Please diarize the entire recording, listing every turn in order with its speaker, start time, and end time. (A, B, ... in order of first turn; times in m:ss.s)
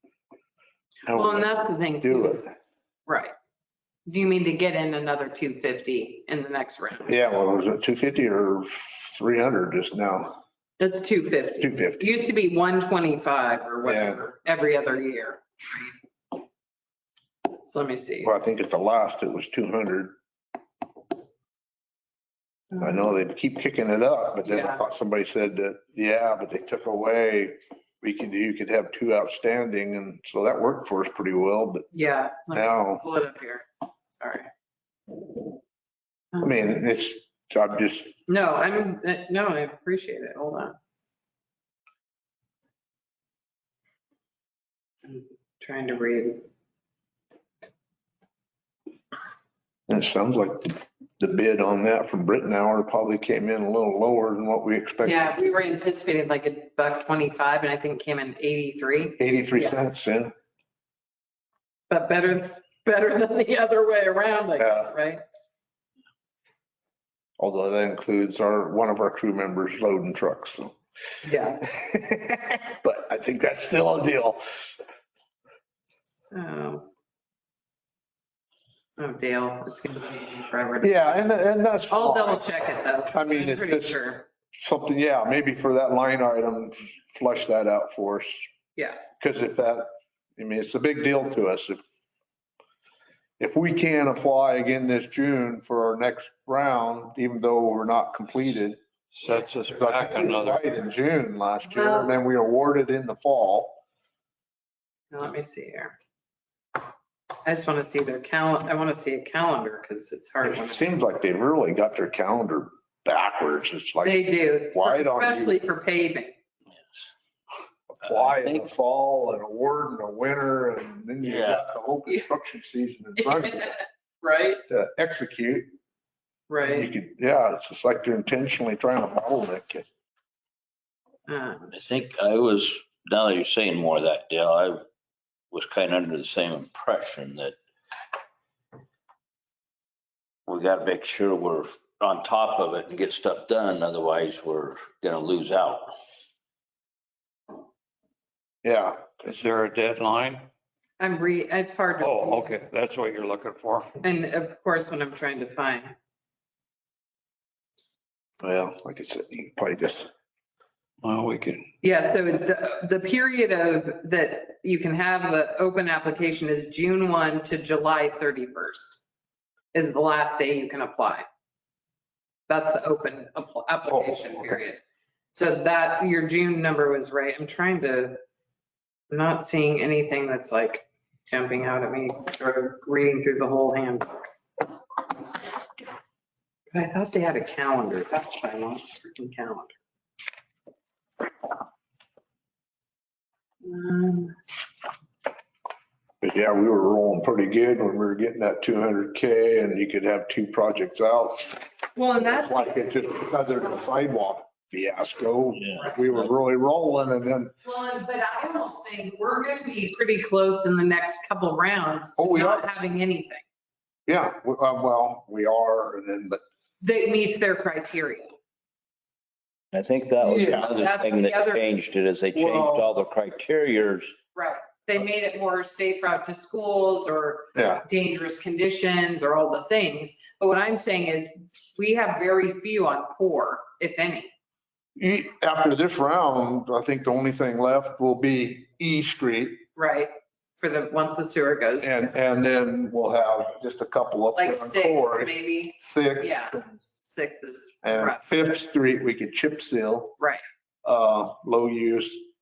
0:01.0-0:02.5 A
0:01.1-0:02.5 B
0:03.1-0:03.3 B
0:04.1-0:07.1 B
0:07.1-0:10.4 A
0:10.8-0:15.9 B
0:11.6-0:12.0 A
0:13.8-0:14.2 A
0:17.6-0:18.3 B
0:18.2-0:20.1 A
0:22.8-0:31.9 A
0:24.4-0:24.8 B
0:31.9-0:34.5 B
0:32.5-0:33.0 A
0:36.4-0:38.2 A
0:38.3-0:40.7 B
0:45.0-0:46.4 B
0:49.9-0:55.3 A
0:55.0-0:59.8 B
0:59.2-1:00.3 A
1:01.9-1:05.2 B
1:04.6-1:04.9 A
1:07.4-1:10.8 A
1:11.2-1:11.6 B
1:11.7-1:14.8 A
1:16.3-1:16.9 B
1:19.0-1:21.3 B
1:20.8-1:22.5 A
1:21.9-1:24.2 B
1:23.1-1:28.4 A
1:28.8-1:29.0 B
1:29.2-1:31.8 A
1:33.4-1:38.8 A
1:39.1-1:40.6 C
1:39.7-1:43.8 A
1:41.7-1:42.1 B
1:45.1-1:46.0 B
1:47.4-1:50.9 B
1:50.4-1:55.6 A
1:54.0-1:56.3 B
1:57.9-2:03.7 A
1:58.2-1:58.6 D
2:01.2-2:01.6 D
2:03.2-2:03.7 B
2:04.2-2:04.6 B
2:04.7-2:05.7 A
2:06.5-2:06.9 B
2:06.7-2:09.8 A
2:11.3-2:11.7 B
2:11.7-2:14.8 D
2:15.5-2:17.5 D
2:20.5-2:25.9 D
2:28.6-2:29.3 A
2:29.2-2:30.4 C
2:31.0-2:32.6 B
2:32.0-2:33.9 C
2:34.0-2:35.9 B
2:38.4-2:40.1 A
2:41.0-2:41.6 C
2:41.8-2:49.0 B
2:49.7-2:51.2 B
2:52.5-2:54.8 B
2:53.9-2:54.4 A
2:55.3-2:58.2 B
2:59.1-3:04.2 B
3:06.7-3:09.7 B
3:13.6-3:14.3 B
3:16.2-3:21.6 A
3:21.9-3:22.8 B
3:22.2-3:27.5 A
3:27.6-3:33.4 B
3:32.2-3:32.7 A
3:34.1-3:36.4 A
3:36.8-3:38.3 B
3:39.7-3:44.1 D
3:40.2-3:40.7 A
3:40.7-3:41.7 B
3:42.3-3:42.9 A
3:44.3-3:54.3 B
3:47.5-3:47.8 A
3:55.0-3:59.6 A
3:59.8-4:02.1 B
4:01.8-4:06.7 A
4:04.3-4:08.3 B
4:07.8-4:10.1 A
4:10.8-4:12.2 A